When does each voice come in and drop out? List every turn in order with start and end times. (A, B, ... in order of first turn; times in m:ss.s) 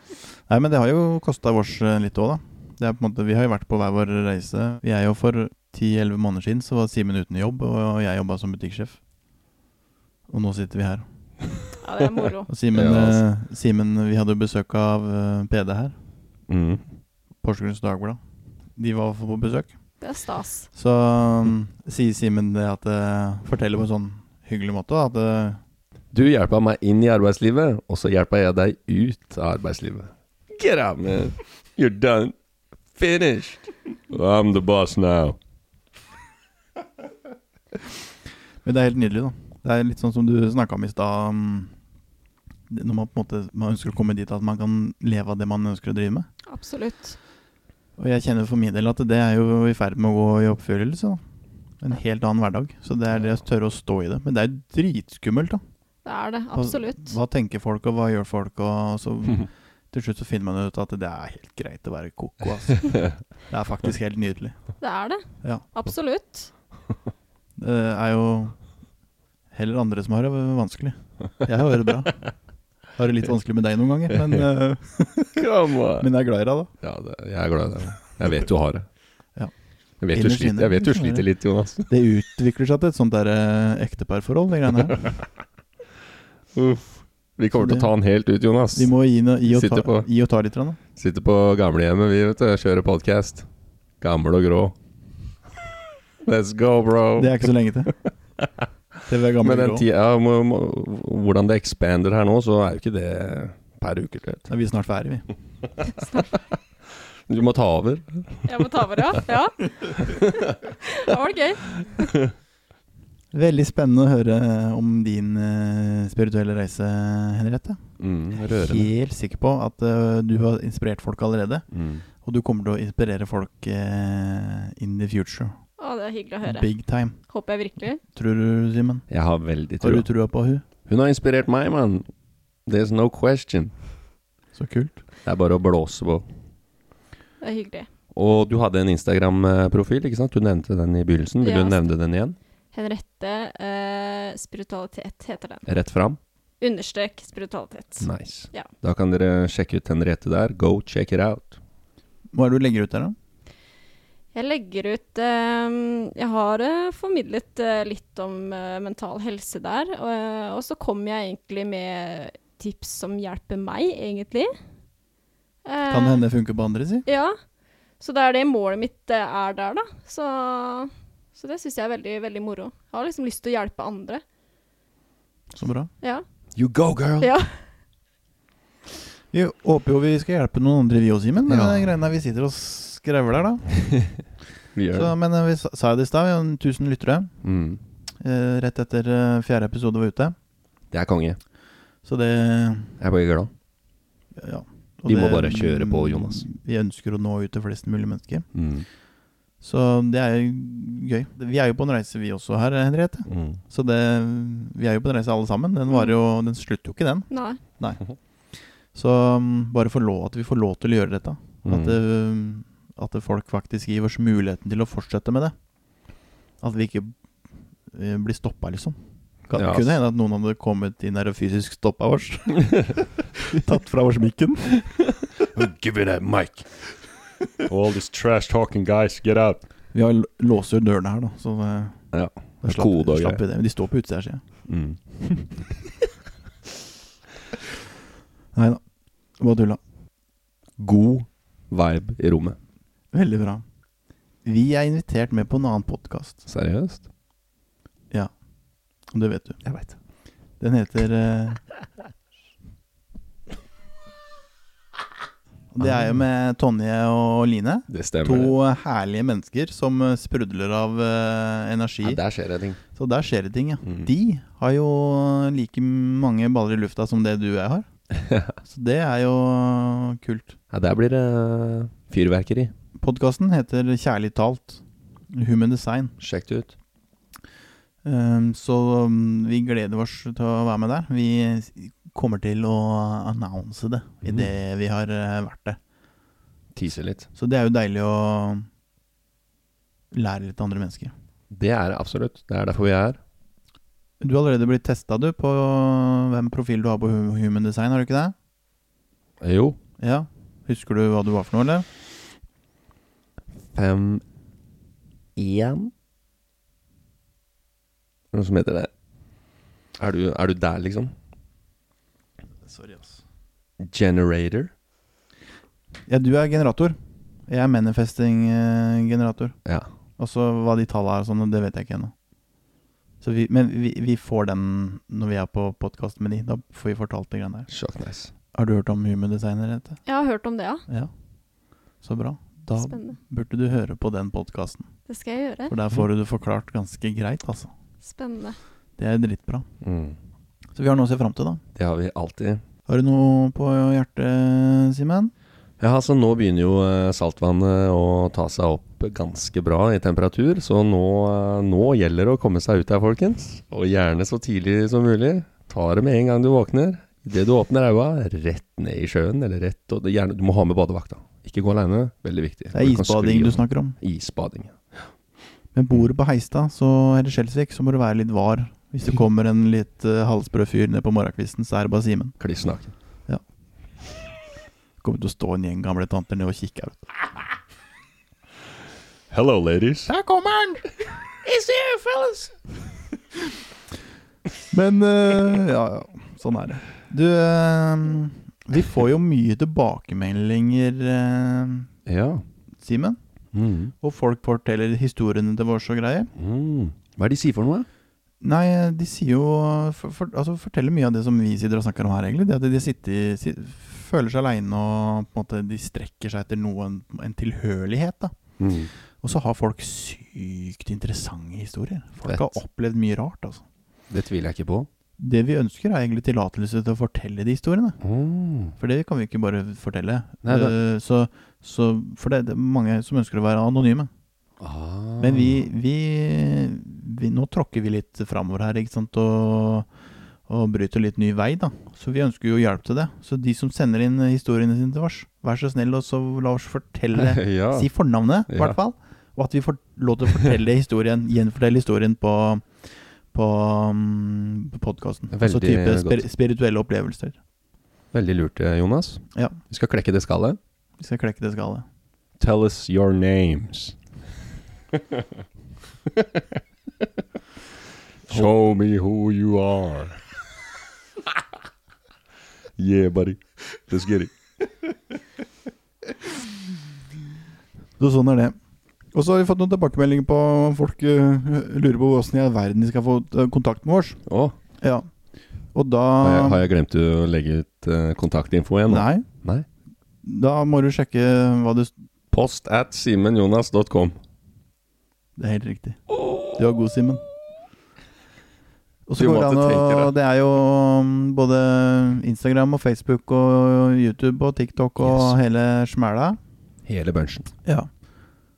0:00.2-0:09.0 A
0:10.3-0:11.0 A
0:11.8-0:12.5 B
0:12.5-0:15.9 A
0:12.7-0:13.2 C
0:16.5-0:16.8 C
0:17.4-0:18.2 A
0:18.8-0:19.7 A
0:20.0-0:20.7 B
0:20.7-0:25.6 A
0:26.1-0:32.3 C
0:33.0-0:35.4 C
0:38.6-0:41.7 A
0:42.7-0:46.3 A
0:46.5-0:47.2 B
0:48.0-0:51.2 A
0:51.8-0:55.6 A
0:56.0-0:57.2 B
0:56.5-1:04.6 A
1:04.8-1:06.5 B
1:07.6-1:08.6 A
1:09.5-1:12.2 A
1:12.9-1:16.7 A
1:15.4-1:16.1 C
1:16.8-1:18.9 C
1:20.0-1:21.9 C
1:20.1-1:21.3 A
1:21.9-1:25.0 A
1:26.5-1:28.9 C
1:27.5-1:27.9 A
1:28.7-1:30.8 A
1:29.4-1:30.1 C
1:31.0-1:33.4 C
1:34.0-1:34.7 C
1:36.2-1:37.4 C
1:37.2-1:37.9 A
1:39.1-1:39.8 A
1:39.4-1:44.5 C
1:44.5-1:45.3 A
1:46.0-1:46.3 B
1:47.3-1:48.5 C
1:48.4-1:52.0 B
1:53.3-1:57.8 A
1:58.0-1:58.9 C
1:58.4-2:01.6 A
2:01.7-2:02.0 C
2:02.2-2:05.5 A
2:05.8-2:08.0 B
2:06.4-2:07.2 A
2:08.0-2:09.1 A
2:09.1-2:10.0 C
2:09.8-2:10.6 A
2:10.8-2:12.0 C
2:12.6-2:13.7 C
2:14.5-2:15.0 A
2:15.2-2:16.2 C
2:17.4-2:17.9 B
2:18.1-2:22.4 C
2:21.4-2:21.8 B
2:22.7-2:25.6 B
2:25.7-2:26.2 C
2:26.6-2:28.7 B
2:28.0-2:31.6 C
2:32.3-2:33.2 A
2:34.3-2:44.5 B
2:45.6-2:46.2 B
2:45.9-2:47.0 A
2:47.0-2:47.3 B
2:48.0-2:54.2 B
2:55.5-2:55.9 A
2:56.5-2:57.3 C
2:57.2-2:57.6 B
2:59.3-3:03.7 A
3:01.5-3:01.9 C
3:04.7-3:05.1 C
3:04.9-3:07.3 A
3:07.4-3:07.8 C
3:08.2-3:10.3 A
3:10.9-3:11.4 C
3:12.0-3:13.0 A
3:13.0-3:13.5 C
3:14.4-3:18.4 A
3:15.0-3:16.4 C
3:18.5-3:18.8 C
3:19.6-3:28.0 A
3:23.3-3:23.6 C
3:27.3-3:27.6 B
3:28.9-3:35.5 A
3:31.6-3:32.0 C
3:36.6-3:37.1 A
3:37.9-3:39.0 A
3:39.5-3:44.9 A
3:39.5-3:39.9 C
3:45.3-3:46.7 C
3:47.6-3:49.6 C
3:49.9-3:52.0 A
3:52.1-3:53.4 C
3:52.6-3:54.4 A
3:54.7-3:55.0 C
3:58.5-3:58.8 A
3:59.4-3:59.8 A
4:00.8-4:02.6 C
4:03.1-4:03.6 A
4:04.4-4:06.4 A
4:06.5-4:07.0 C
4:09.1-4:09.6 A
4:09.6-4:10.0 C
4:10.6-4:11.6 A
4:15.7-4:22.2 A
4:15.8-4:16.2 C
4:17.9-4:18.5 C
4:22.0-4:22.8 C
4:22.9-4:27.9 A
4:28.1-4:28.5 C
4:28.7-4:30.6 A
4:30.7-4:32.7 C
4:33.0-4:36.1 A
4:36.2-4:36.7 C
4:38.0-4:45.8 A
4:44.2-4:44.5 C
4:46.7-4:47.3 C
4:47.3-4:48.6 A
4:50.1-4:51.1 A
4:51.5-4:53.2 C
4:54.2-4:58.3 A
4:59.4-4:59.8 C
5:00.0-5:01.9 A
5:03.7-5:04.2 C
5:05.4-5:05.9 C
5:08.3-5:08.9 C
5:10.0-5:11.1 C
5:12.6-5:13.2 A
5:13.8-5:14.7 C
5:16.1-5:17.0 A
5:17.5-5:19.6 A
5:20.2-5:22.1 A
5:23.2-5:27.7 A
5:27.7-5:28.3 C
5:28.5-5:30.0 A
5:30.0-5:30.8 B
5:32.0-5:34.9 A
5:32.8-5:33.2 B
5:35.1-5:35.7 B
5:35.7-5:37.7 A
5:38.0-5:38.6 B
5:39.0-5:39.7 A
5:39.8-5:40.2 C
5:40.7-5:41.6 A
5:41.8-5:42.6 C
5:42.8-5:45.3 A
5:45.8-6:05.1 C
6:02.7-6:04.0 A
6:05.7-6:12.4 A
6:12.4-6:12.9 C
6:15.0-6:17.1 A
6:19.3-6:20.1 C
6:20.1-6:20.8 A
6:21.5-6:22.5 A
6:21.6-6:22.4 C
6:24.7-6:31.9 A
6:32.1-6:32.4 C
6:32.8-6:33.2 A
6:33.5-6:33.9 C
6:34.0-6:36.3 A
6:36.4-6:37.9 C
6:38.4-6:48.3 A
6:48.6-6:48.9 C
6:49.2-6:53.6 A
6:52.2-6:52.5 C
6:54.1-6:54.9 C
6:55.2-6:58.0 A
6:58.0-6:58.7 C
6:58.8-7:04.1 A
7:00.4-7:00.7 C
7:04.6-7:05.6 C
7:05.2-7:09.9 A
7:10.5-7:27.4 A
7:17.1-7:17.9 C
7:18.5-7:18.8 C
7:25.3-7:26.2 C
7:28.1-7:30.6 C
7:31.0-7:31.8 A
7:32.4-7:34.0 C
7:38.3-7:40.2 C
7:42.8-7:44.3 C
7:48.0-7:48.6 A
7:49.1-7:54.2 A
7:54.3-7:54.5 C
7:54.8-7:55.1 A
7:55.7-7:56.7 A
7:56.2-7:59.6 C
7:58.9-7:59.2 A
8:00.2-8:01.9 A
8:02.3-8:04.2 C
8:05.4-8:06.0 A
8:06.5-8:07.2 A
8:09.1-8:16.4 A
8:09.2-8:10.1 C
8:15.0-8:15.4 C
8:16.8-8:17.5 C